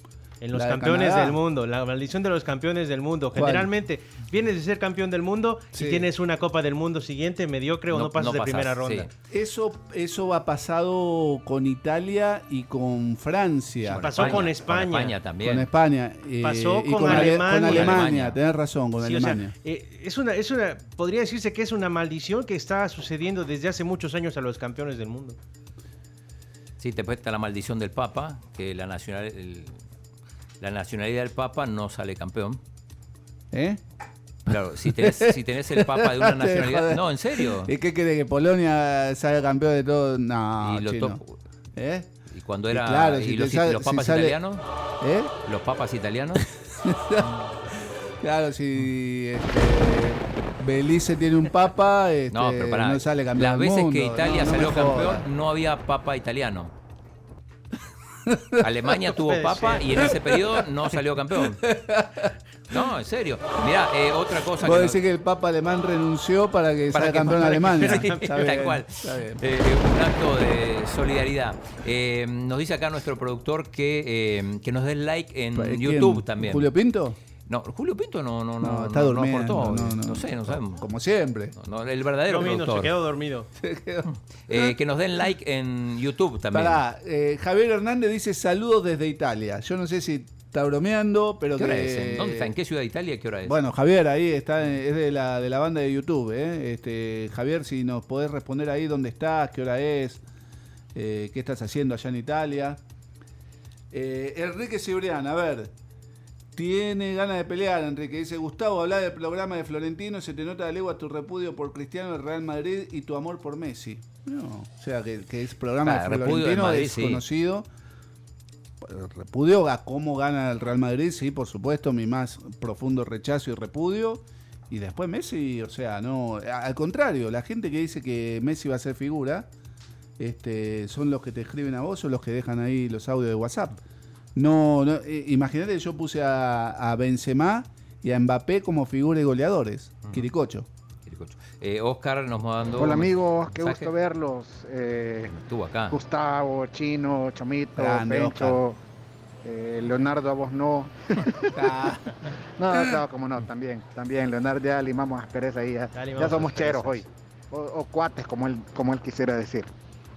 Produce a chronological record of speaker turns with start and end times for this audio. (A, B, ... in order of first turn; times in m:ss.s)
0:00.4-0:09.1 A
0:00.5-0:01.4 B
0:03.3-0:03.7 B
0:05.7-0:06.1 B
0:07.9-0:09.1 C
0:09.3-0:14.5 B
0:13.9-0:15.7 C
0:14.0-0:15.2 A
0:15.4-0:19.5 B
0:16.4-0:18.1 A
0:17.1-0:18.4 C
0:19.0-0:25.4 A
0:26.8-0:29.8 C
0:30.6-0:32.6 C
0:33.5-0:33.8 B
0:34.5-0:37.7 C
0:34.8-0:41.2 B
0:40.6-0:41.4 C
0:41.8-0:42.1 B
0:42.3-0:44.6 C
0:42.7-0:44.4 B
0:45.0-0:45.3 B
0:45.4-0:46.4 C
0:46.8-0:47.4 B
0:48.2-0:55.2 B
0:52.3-0:56.7 C
0:58.3-0:58.6 B
0:58.6-1:01.6 C
0:59.2-1:00.0 A
1:01.6-1:02.3 B
1:02.7-1:05.0 C
1:04.6-1:09.4 B
1:06.9-1:16.7 C
1:07.5-1:08.6 A
1:15.6-1:17.2 B
1:17.5-1:20.8 C
1:18.6-1:21.6 B
1:21.6-1:22.9 C
1:22.3-1:23.5 A
1:23.6-1:24.8 B
1:24.5-1:26.8 C
1:26.5-1:32.5 B
1:31.6-1:33.6 C
1:33.5-1:40.2 B
1:41.0-1:42.8 B
1:43.9-1:45.7 B
1:46.6-1:57.7 B
1:55.8-1:57.2 C
1:58.8-2:09.5 B
2:10.2-2:13.8 B
2:14.4-2:20.7 B
2:21.1-2:23.9 C
2:22.8-2:25.3 D
2:25.3-2:26.0 C
2:25.9-2:28.8 D
2:27.8-2:28.6 B
2:29.4-2:31.6 D
2:31.6-2:32.1 B
2:32.6-2:39.7 D
2:35.9-2:37.0 A